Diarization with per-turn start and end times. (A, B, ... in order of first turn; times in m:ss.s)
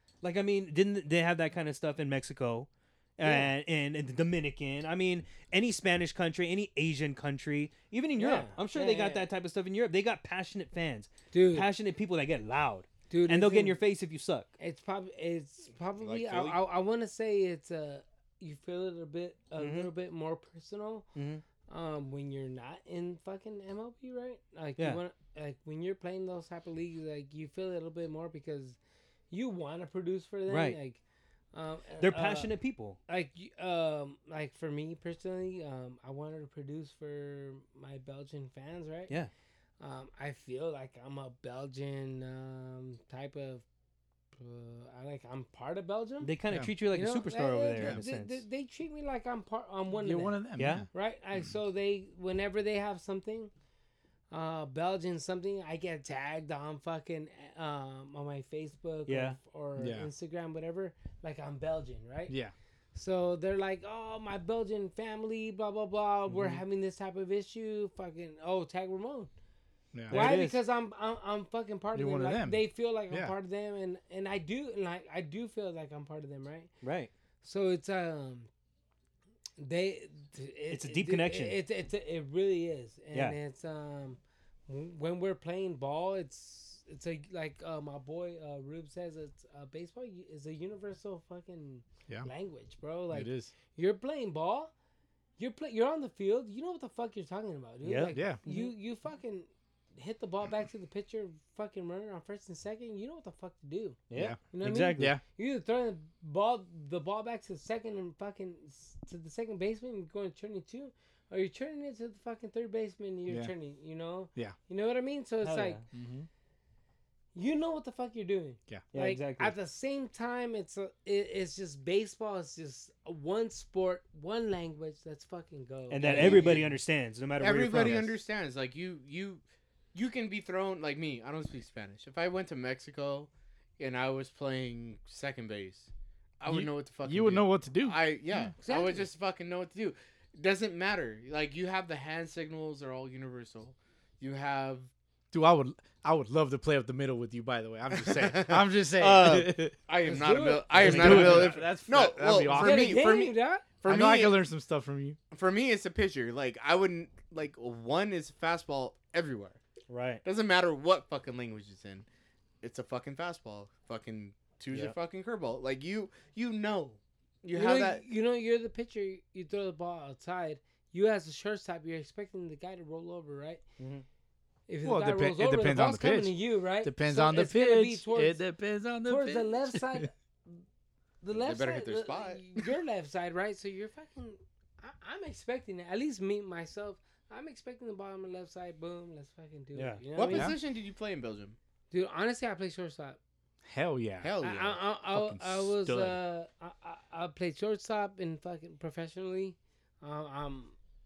0:00.2-0:14.5 A
0:03.2-0:03.5 B
0:08.2-0:09.2 B
0:11.3-0:11.7 B
0:13.1-0:13.8 B
0:14.6-0:21.1 B
0:16.0-0:16.6 C
0:19.6-0:19.9 A
0:21.1-0:21.4 A
0:21.7-0:28.8 B
0:24.8-0:25.0 A
0:29.3-0:31.0 B
0:30.5-0:30.8 A
0:31.5-0:32.5 B
0:32.0-0:33.0 A
0:33.1-0:39.1 B
0:39.8-0:43.6 B
0:44.3-0:46.3 B
0:46.2-0:48.4 A
0:46.9-0:53.5 B
0:49.9-0:50.9 D
0:50.6-0:50.8 A
0:54.3-1:02.3 B
0:59.1-0:59.4 A
0:59.8-1:00.1 D
1:02.9-1:09.3 B
1:06.3-1:06.6 D
1:09.9-1:10.3 D
1:10.1-1:16.7 B
1:10.1-1:10.6 A
1:11.9-1:13.3 D
1:16.8-1:17.1 A
1:17.4-1:18.5 B
1:19.6-1:34.7 B
1:20.7-1:21.6 A
1:23.1-1:23.4 A
1:33.1-1:33.5 D
1:35.4-1:55.8 B
1:37.8-1:38.7 A
1:38.1-1:38.4 D
1:44.1-1:45.1 A
1:44.1-1:45.2 D
1:53.3-1:53.5 D
1:55.4-1:55.8 A
1:55.9-1:56.3 D
1:57.3-2:06.7 B
1:58.9-1:59.5 A
2:05.9-2:08.0 A
2:06.0-2:06.6 C
2:07.4-2:09.4 C
2:07.8-2:08.1 D
2:09.9-2:15.9 C
2:16.4-2:24.9 C
2:16.5-2:18.5 D
2:18.6-2:19.0 B
2:25.3-2:29.7 D
2:27.9-2:34.4 C
2:30.0-2:31.5 B
2:30.7-2:33.0 D
2:30.7-2:31.7 A
2:32.5-2:33.8 B
2:33.8-2:35.2 D
2:35.3-2:39.6 C
2:39.9-2:40.2 A
2:40.2-2:42.0 C
2:42.6-2:48.0 C
2:44.7-2:45.0 A
2:47.5-2:53.6 B
2:53.8-2:54.0 A
2:54.7-2:58.4 B
2:54.8-3:00.1 D
2:59.0-3:00.6 B
3:01.2-3:10.5 B
3:01.3-3:02.4 C
3:09.7-3:10.0 A
3:10.1-3:11.6 C
3:10.3-3:10.5 D
3:11.9-3:13.2 B
3:13.6-3:14.3 D
3:14.2-3:14.8 C
3:14.4-3:20.7 B
3:15.1-3:16.2 D